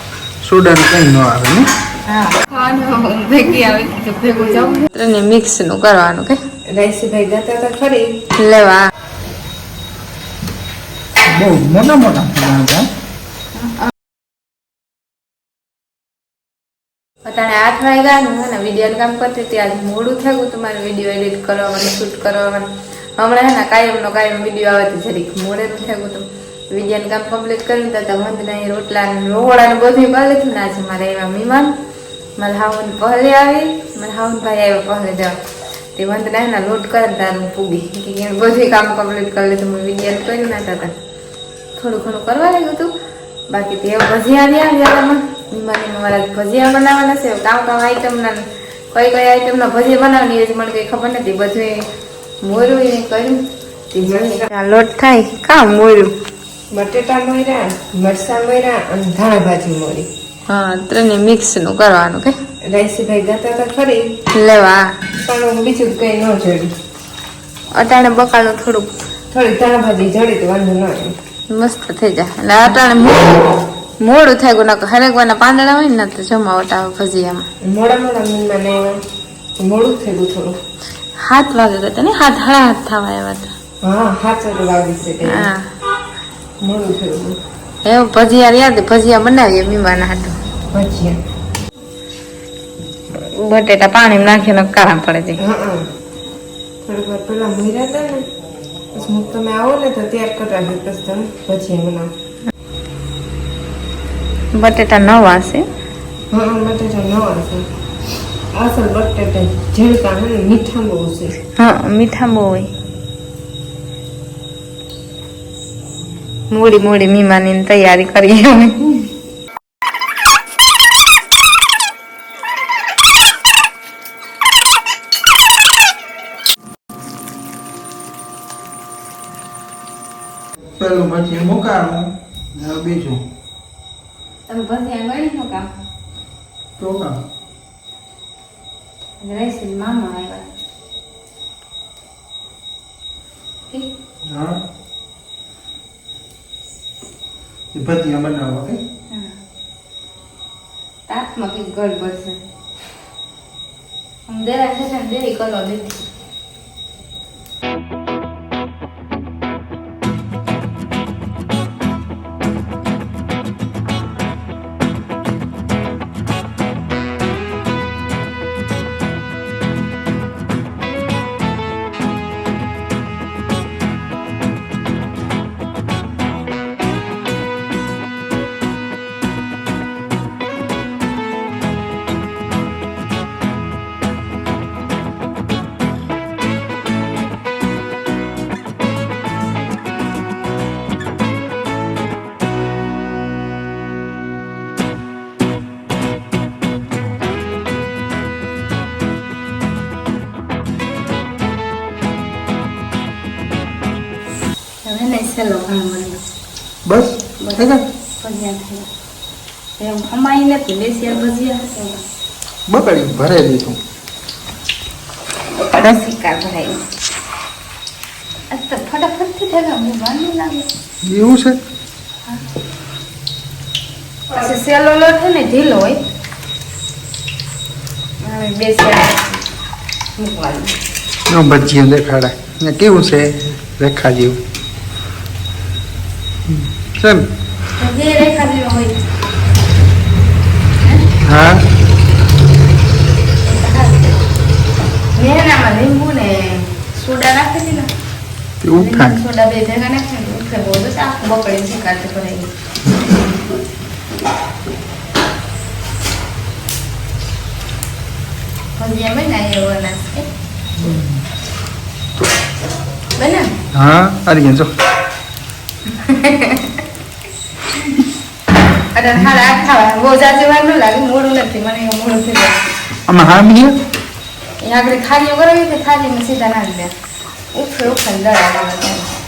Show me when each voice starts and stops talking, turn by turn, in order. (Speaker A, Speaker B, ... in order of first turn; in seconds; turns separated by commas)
Speaker A: 0.4-1.6, Speaker B: 2.1-6.4, Speaker C: 6.7-8.2, Speaker B: 8.4-8.9, Speaker A: 11.3-12.8, Speaker B: 13.5-13.9, Speaker B: 17.2-31.7, Speaker B: 32.4-35.4, Speaker B: 35.9-40.9, Speaker B: 41.8-42.9, Speaker B: 43.5-51.8, Speaker B: 52.4-53.4, Speaker B: 53.9-56.1, Speaker C: 54.0-54.4, Speaker C: 56.7-60.1, Speaker B: 60.5-62.3, Speaker C: 62.7-64.1, Speaker B: 64.3-64.8, Speaker C: 65.2-66.7, Speaker B: 67.7-68.9, Speaker C: 69.3-71.1, Speaker B: 71.5-77.5, Speaker C: 77.6-79.0, Speaker C: 79.6-80.6, Speaker B: 81.2-83.5, Speaker C: 83.8-85.5, Speaker B: 85.2-85.7, Speaker C: 86.6-87.4, Speaker B: 87.8-90.4, Speaker C: 90.7-91.2, Speaker B: 93.2-95.4, Speaker C: 95.4-95.9, Speaker C: 96.8-98.2, Speaker C: 98.9-102.1, Speaker B: 104.5-105.7, Speaker C: 106.3-107.7, Speaker C: 108.5-111.3, Speaker B: 111.5-112.7, Speaker B: 116.5-119.0, Speaker A: 130.8-133.2, Speaker B: 134.5-135.7, Speaker A: 136.8-137.2, Speaker B: 139.2-140.5, Speaker A: 144.2-144.6, Speaker A: 147.7-148.8, Speaker B: 151.1-152.4, Speaker B: 154.3-156.0, Speaker B: 204.8-206.2, Speaker A: 206.8-207.8, Speaker B: 207.4-208.9, Speaker B: 209.8-212.0, Speaker A: 212.7-213.8, Speaker B: 215.5-216.8, Speaker B: 218.5-220.7, Speaker A: 221.0-221.6, Speaker B: 224.3-226.0, Speaker B: 228.2-229.4, Speaker B: 230.2-230.8, Speaker A: 231.3-234.4, Speaker A: 236.5-237.3, Speaker B: 237.7-239.0, Speaker A: 241.2-241.6, Speaker B: 243.4-244.2, Speaker B: 245.1-247.9, Speaker A: 248.6-249.2, Speaker B: 248.7-252.5, Speaker B: 258.8-260.3, Speaker A: 260.8-261.2, Speaker B: 263.1-263.5, Speaker A: 263.7-264.7, Speaker B: 265.9-266.8, Speaker B: 268.9-272.6, Speaker A: 273.1-273.8, Speaker B: 274.6-276.9, Speaker B: 277.5-279.1